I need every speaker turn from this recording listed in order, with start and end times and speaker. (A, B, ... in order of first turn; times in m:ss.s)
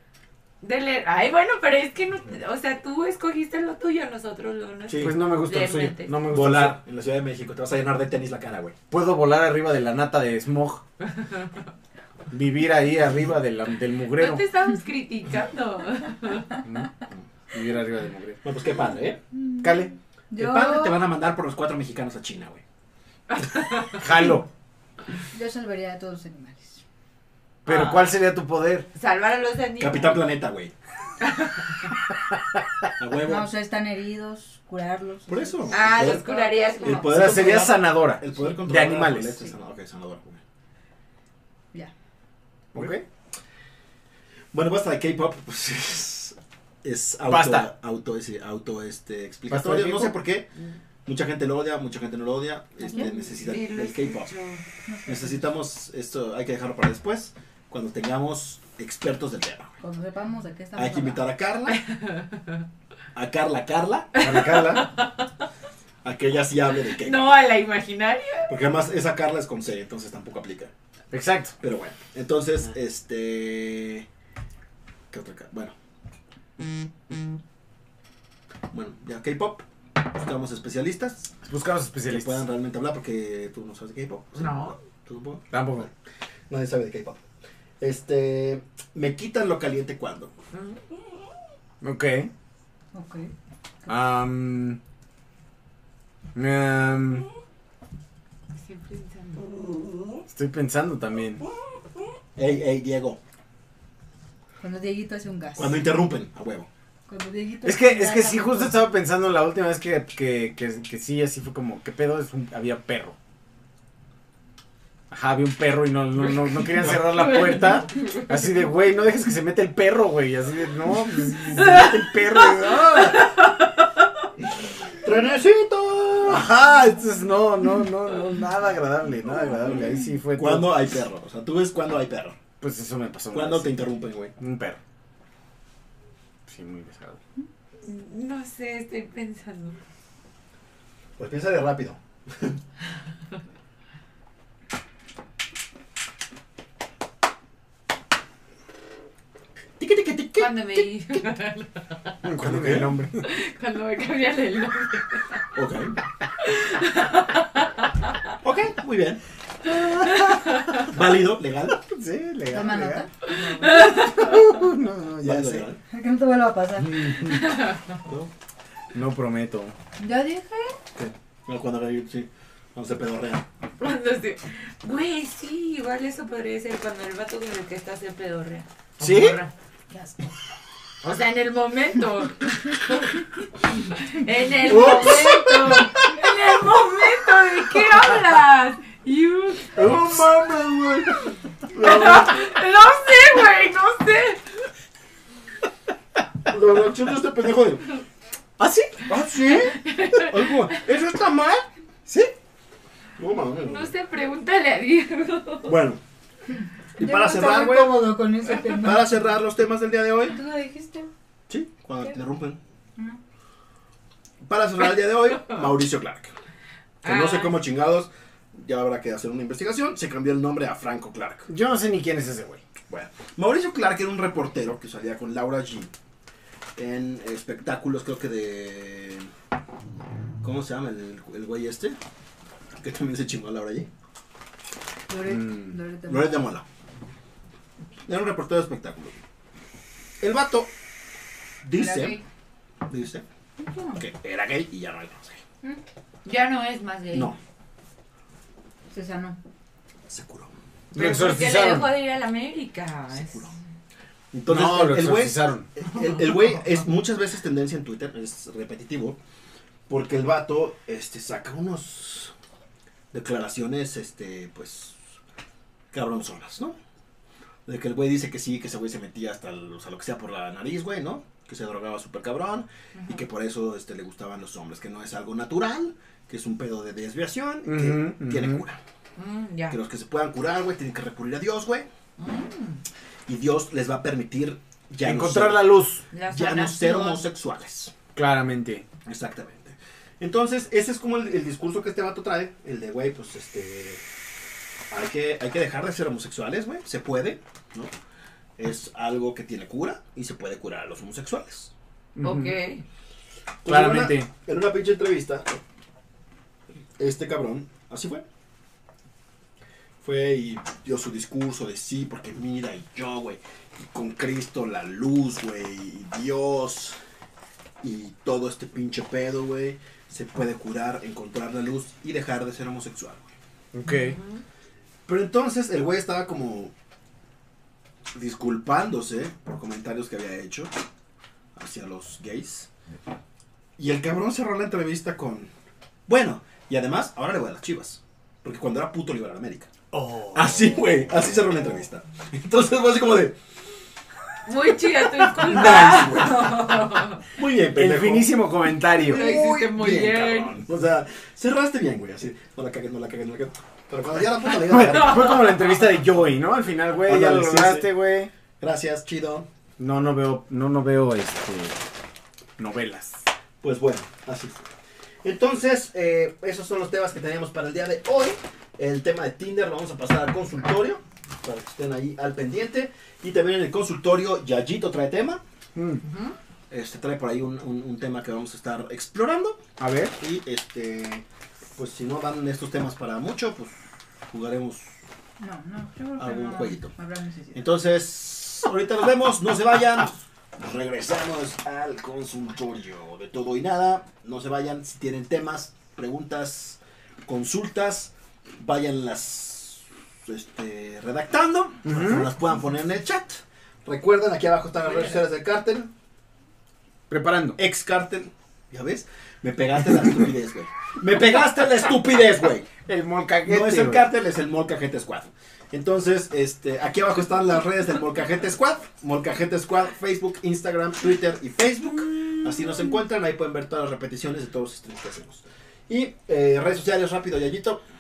0:00.6-0:06.2 A
0:04.9-0:05.2 B
0:05.0-0:06.8 C
0:06.3-0:08.8 B
0:08.9-0:10.8 C
0:11.0-0:11.7 A
0:12.3-0:14.4 C
0:14.2-0:16.5 A
0:16.6-0:16.9 C
0:17.5-0:18.4 C
0:18.4-0:19.2 B
0:19.3-0:21.0 D
0:19.6-0:19.9 C
0:20.4-0:22.6 B
0:23.3-0:24.1 A
0:24.0-0:24.5 C
0:25.3-0:26.8 D
0:27.7-0:28.1 A
0:27.7-0:28.9 C
0:29.0-0:30.2 A
0:29.8-0:30.7 B
0:31.2-0:31.8 A
0:33.0-0:33.5 B
0:33.2-0:37.1 D
0:35.3-0:36.3 B
0:35.7-0:37.5 A
0:36.8-0:40.4 B
0:37.1-0:39.5 C
0:42.7-0:43.0 C
0:42.8-0:43.0 B
0:44.5-0:50.5 B
0:47.3-0:47.7 C
0:49.5-0:50.1 C
0:51.1-0:54.3 B
0:52.8-0:54.6 A
0:52.9-0:53.1 D
0:54.9-0:55.5 D
0:55.1-0:59.7 B
0:59.8-1:01.3 D
1:00.8-1:01.8 B
1:01.7-1:02.6 A
1:03.2-1:04.1 B
1:04.2-1:05.3 A
1:04.2-1:04.9 C
1:06.0-1:07.4 B
1:06.9-1:08.5 A
1:08.5-1:10.7 B
1:11.1-1:11.6 C
1:11.6-1:14.1 B
1:15.1-1:15.7 B
1:18.7-1:21.3 B
1:21.4-1:22.4 C
1:22.0-1:25.9 B
1:24.4-1:24.8 A
1:25.5-1:25.9 C
1:26.5-1:27.2 B
1:27.8-1:30.3 B
1:30.5-1:30.8 A
1:31.8-1:32.3 C
1:32.9-1:33.3 D
1:33.9-1:34.8 C
1:36.4-1:37.3 C
1:38.5-1:39.5 A
1:40.3-1:41.4 C
1:42.4-1:43.2 B
1:44.6-1:45.8 D
1:45.6-1:46.7 B
1:47.1-1:48.8 D
1:47.6-1:53.2 C
1:55.1-2:03.4 C
1:57.0-1:58.2 A
2:01.6-2:03.6 A
2:05.0-2:06.5 B
2:06.3-2:10.8 C
2:10.4-2:12.4 B
2:12.6-2:13.8 C
2:13.3-2:14.3 B
2:14.4-2:14.8 C
2:16.5-2:17.2 C
2:17.8-2:19.8 A
2:21.2-2:22.6 B
2:29.8-2:31.2 B
2:30.4-2:31.9 A
2:32.2-2:33.2 C
2:32.4-2:32.9 B
2:33.2-2:35.4 A
2:35.6-2:36.0 B
2:36.4-2:37.9 A
2:38.4-2:39.2 B
2:39.6-2:40.8 C
2:40.2-2:40.7 A
2:40.9-2:41.8 B
2:41.8-2:43.1 C
2:42.5-2:44.0 D
2:43.4-2:44.4 A
2:43.7-2:45.7 C
2:45.2-2:45.8 B
2:45.9-2:47.1 D
2:47.0-2:47.5 C
2:47.3-2:47.8 A
2:48.0-2:48.3 B
2:48.9-2:49.8 C
2:50.0-2:50.8 D
2:51.0-2:53.4 B
2:53.8-2:59.5 A
2:59.0-2:59.4 C
3:01.0-3:09.8 A
3:04.7-3:05.8 C
3:09.8-3:12.4 B
3:09.8-3:11.1 C
3:11.8-3:14.4 A
3:16.5-3:17.9 B
3:18.6-3:19.0 C
3:19.1-3:21.7 B
3:19.8-3:20.5 A
3:22.1-3:22.3 C
3:23.2-3:23.9 B
3:23.6-3:25.8 A
3:25.6-3:26.0 B
3:27.0-3:28.1 B
3:27.0-3:29.2 D
3:28.7-3:30.4 B
3:30.3-3:31.1 D
3:30.3-3:30.6 A
3:31.5-3:32.6 B
3:34.4-3:36.3 B
3:37.0-3:37.6 A
3:37.0-3:41.5 B
3:41.5-3:42.6 C
3:42.9-3:45.9 B
3:46.8-3:49.3 B
3:50.4-3:52.0 B
3:52.8-3:53.9 B
3:55.1-3:56.5 D
3:55.3-3:55.8 C
3:56.1-3:56.6 B
3:58.1-3:59.2 B
4:00.2-4:00.7 B
4:01.6-4:02.2 B
4:01.7-4:02.2 D
4:02.9-4:03.2 B
4:03.6-4:04.0 D
4:03.9-4:05.4 B
4:06.2-4:07.3 A
4:07.1-4:07.4 B
4:08.9-4:09.4 D
4:10.1-4:10.5 B
4:10.9-4:11.9 C
4:11.0-4:13.5 A
4:13.1-4:13.6 B
4:14.3-4:19.2 B
4:14.5-4:15.7 C
4:19.9-4:22.3 B
4:23.1-4:25.0 B
4:25.9-4:26.8 B
4:27.7-4:38.8 B
4:33.0-4:33.2 A
4:37.6-4:38.6 C
4:39.2-4:39.8 A
4:39.7-4:41.9 B
4:42.2-4:42.8 A
4:43.3-4:45.7 B
4:45.0-4:46.1 C
4:46.1-4:47.3 A
4:46.3-4:47.9 B
4:48.2-4:48.8 C
4:49.1-4:54.0 B
4:54.9-4:57.9 B
4:58.6-5:01.7 B
5:02.2-5:02.6 C
5:02.2-5:02.8 A
5:03.6-5:05.6 B
5:03.7-5:04.3 C
5:07.0-5:08.2 B
5:10.0-5:17.0 B
5:17.8-5:23.3 B
5:23.7-5:24.2 C
5:23.8-5:24.4 A
5:25.1-5:26.7 B
5:28.1-5:30.7 B
5:31.6-5:32.7 B
5:33.8-5:35.5 B
5:36.1-5:39.7 B
5:39.9-5:40.8 C
5:40.3-5:43.4 B
5:44.5-5:47.2 A
5:45.2-5:48.4 B
5:47.7-5:49.3 C
5:49.0-5:50.6 A
5:49.1-5:55.5 B
5:54.4-5:58.3 C
5:57.0-5:57.9 B
5:58.6-5:59.5 B
5:59.8-6:01.8 C
6:02.6-6:03.3 C
6:03.6-6:04.6 B
6:05.2-6:15.4 B
6:15.8-6:16.0 C
6:16.0-6:16.4 A
6:16.7-6:19.6 B
6:19.8-6:20.1 C
6:20.2-6:21.2 B
6:21.8-6:23.8 B
6:24.3-6:24.9 B
6:25.4-6:27.7 D
6:26.2-6:26.9 B
6:27.5-6:45.9 B
6:41.8-6:42.3 C
6:44.9-6:45.2 A
6:47.1-6:47.6 C
6:47.6-6:52.7 B
6:52.8-6:54.1 C
6:53.5-7:07.8 B
7:02.1-7:02.4 C